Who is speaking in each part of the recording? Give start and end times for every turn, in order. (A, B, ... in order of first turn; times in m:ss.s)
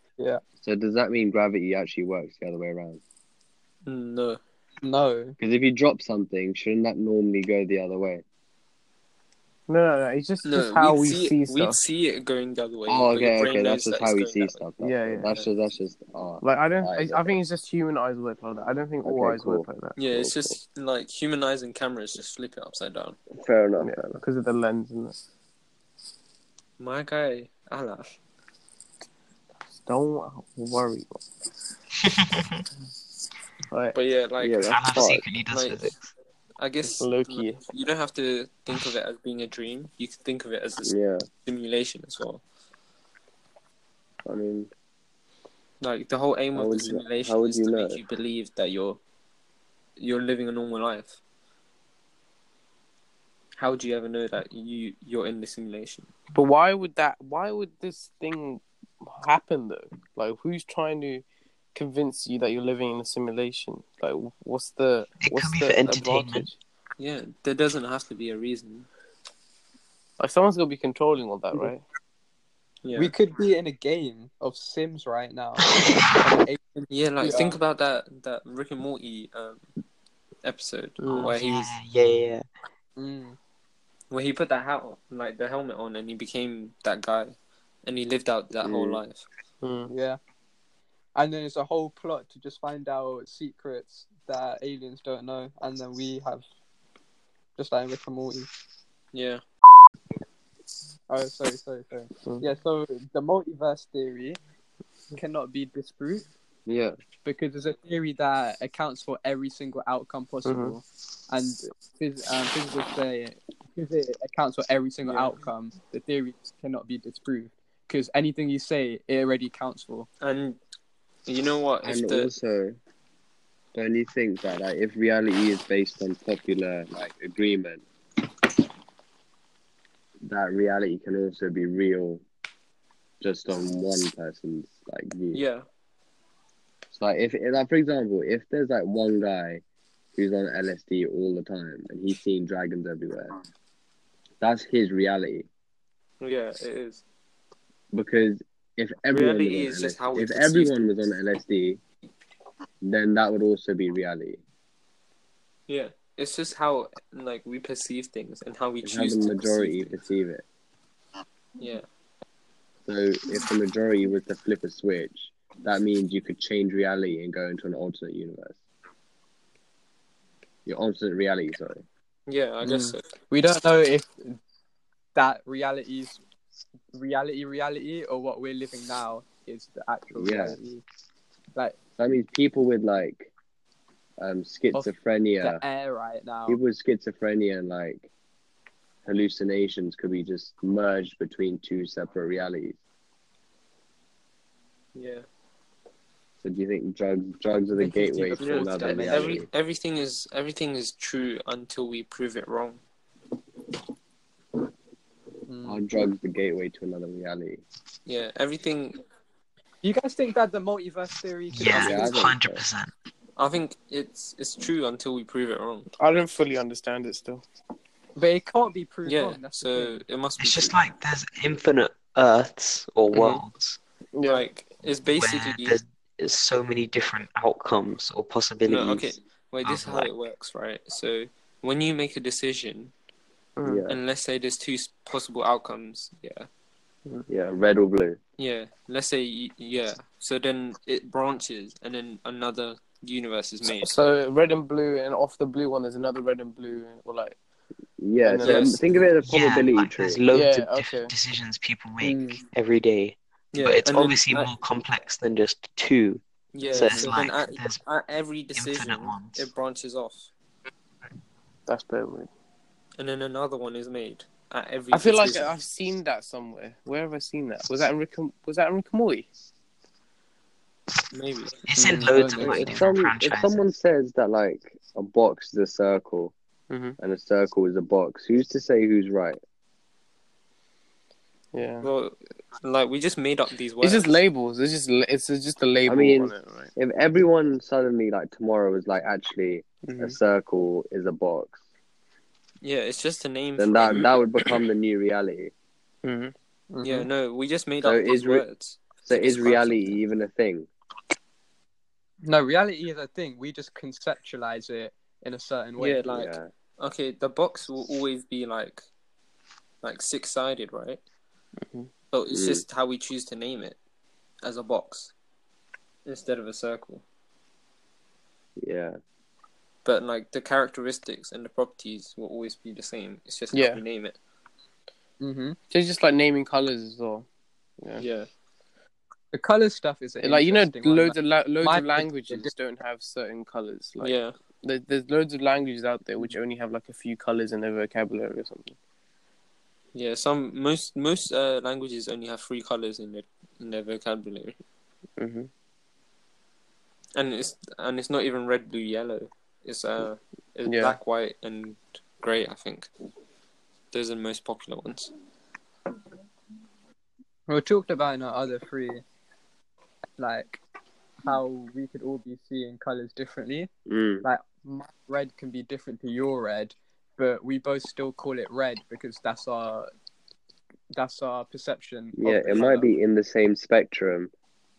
0:00.6-0:03.0 A
0:03.8-0:04.4 B
0:04.8-0:05.4 C
0:05.4-0:08.2 A
0:09.7-0:11.8 D
0:10.4-0:14.7 B
0:12.9-0:17.4 A
0:14.8-0:15.4 D
0:16.4-0:20.0 D
0:19.0-0:20.5 A
0:20.0-0:23.2 B
0:23.3-0:24.2 A
0:23.8-0:25.2 D
0:26.8-0:28.2 B
0:29.7-0:31.2 D
0:32.0-0:32.6 E
0:33.7-0:34.0 D
0:33.9-0:35.0 B
0:34.4-0:35.2 A
0:34.7-0:36.0 E
0:35.5-0:35.9 B
0:36.6-0:42.4 B
0:36.9-0:37.6 D
0:40.8-0:41.3 A
0:44.2-0:44.7 A
0:45.8-0:49.0 B
0:46.5-0:48.0 A
0:50.0-0:51.2 B
0:53.6-0:56.1 B
0:56.3-1:01.2 D
1:01.7-1:06.6 D
1:05.2-1:06.5 E
1:07.0-1:08.9 B
1:10.2-1:11.8 D
1:12.8-1:13.1 B
1:12.9-1:17.6 C
1:16.9-1:19.6 B
1:17.2-1:17.5 D
1:20.4-1:21.8 B
1:21.0-1:21.3 D
1:21.2-1:22.4 E
1:23.0-1:23.4 C
1:24.1-1:29.2 B
1:28.6-1:29.0 A
1:29.6-1:29.9 D
1:29.9-1:30.2 C
1:31.1-1:36.4 C
1:37.6-1:38.5 C
1:39.1-1:39.4 B
1:41.1-1:44.4 C
1:45.1-1:46.2 C
1:46.7-1:47.0 A
1:47.2-2:00.1 C
1:50.4-1:50.8 D
2:00.2-2:00.6 B
2:01.2-2:02.3 B
2:01.8-2:02.8 A
2:03.7-2:07.8 A
2:10.2-2:12.2 A
2:13.2-2:15.4 A
2:15.3-2:15.6 B
2:16.9-2:19.6 A
2:20.2-2:23.4 A
2:24.4-2:25.5 A
2:26.2-2:27.0 B
2:27.9-2:31.8 A
2:29.1-2:30.7 B
2:32.8-2:34.4 A
2:35.7-2:40.0 B
2:38.8-2:40.4 A
2:41.6-2:41.8 B
2:42.8-2:48.6 A
2:50.6-2:51.8 A
2:52.3-2:53.0 B
2:52.6-2:54.4 C
2:55.1-2:56.2 C
2:56.9-3:00.8 C
3:00.1-3:00.6 A
3:02.0-3:03.3 A
3:04.2-3:05.6 A
3:04.7-3:06.6 C
3:06.5-3:08.1 A
3:09.0-3:12.8 A
3:14.9-3:15.2 B
3:16.4-3:19.5 A
3:17.8-3:19.4 C
3:18.3-3:22.8 B
3:25.5-3:25.8 C
3:25.6-3:27.6 A
3:28.0-3:29.0 B
3:29.8-3:32.2 C
3:31.5-3:32.9 E
3:31.7-3:32.6 A
3:33.4-3:35.9 B
3:36.0-3:37.4 D
3:38.2-3:40.0 C
3:39.0-3:40.7 B
3:40.4-3:43.8 E
3:43.1-3:43.4 D
3:44.1-3:44.5 D
3:44.2-3:45.8 B
3:45.1-3:49.1 E
3:48.7-3:52.9 B
3:49.6-3:50.1 E
3:53.6-3:53.8 D
3:53.6-3:54.0 A
3:53.9-3:56.5 B
3:57.3-3:58.2 A
3:58.4-4:03.9 B
4:03.6-4:07.4 D
4:08.0-4:10.2 A
4:08.2-4:08.8 D
4:08.4-4:08.8 B
4:09.0-4:16.2 E
4:10.3-4:11.1 D
4:12.0-4:12.4 C
4:13.5-4:14.5 B
4:16.5-4:20.3 B
4:16.6-4:17.1 C
4:16.7-4:17.8 E
4:18.5-4:19.5 E
4:21.7-4:22.3 D
4:23.0-4:25.6 B
4:24.9-4:29.3 D
4:31.1-4:31.6 B
4:31.7-4:33.5 E
4:31.7-4:32.9 C
4:32.4-4:36.3 A
4:36.7-4:37.0 D
4:37.0-4:39.4 A
4:41.5-4:41.8 D
4:41.8-4:44.2 B
4:43.8-4:46.7 D
4:45.8-4:51.6 A
4:49.8-4:50.2 D
4:52.6-4:54.2 B
4:53.6-4:55.5 A
4:56.0-4:56.3 D
4:56.7-4:57.1 C
4:56.8-5:00.0 B
4:57.8-4:58.4 A
4:59.0-5:00.7 A
5:02.2-5:06.0 C
5:05.8-5:08.8 B
5:06.1-5:06.5 A
5:09.8-5:11.0 B
5:11.6-5:11.9 D
5:12.1-5:13.8 B
5:12.3-5:12.6 A
5:14.4-5:15.1 B
5:16.0-5:17.0 B
5:18.6-5:19.0 A
5:19.8-5:24.2 B
5:23.5-5:23.8 D
5:25.2-5:25.6 C
5:25.7-5:27.2 D
5:28.0-5:28.3 B
5:29.3-5:32.5 C
5:30.2-5:38.7 D
5:34.0-5:34.4 B
5:39.9-5:44.6 B
5:45.2-5:45.5 D
5:47.1-5:52.9 B
5:50.6-5:51.0 D
5:53.9-5:55.1 B
5:57.5-5:59.0 C
6:00.2-6:00.6 C
6:01.2-6:03.7 C
6:03.9-6:04.2 A
6:04.2-6:09.9 C
6:10.9-6:12.9 C
6:12.2-6:14.3 A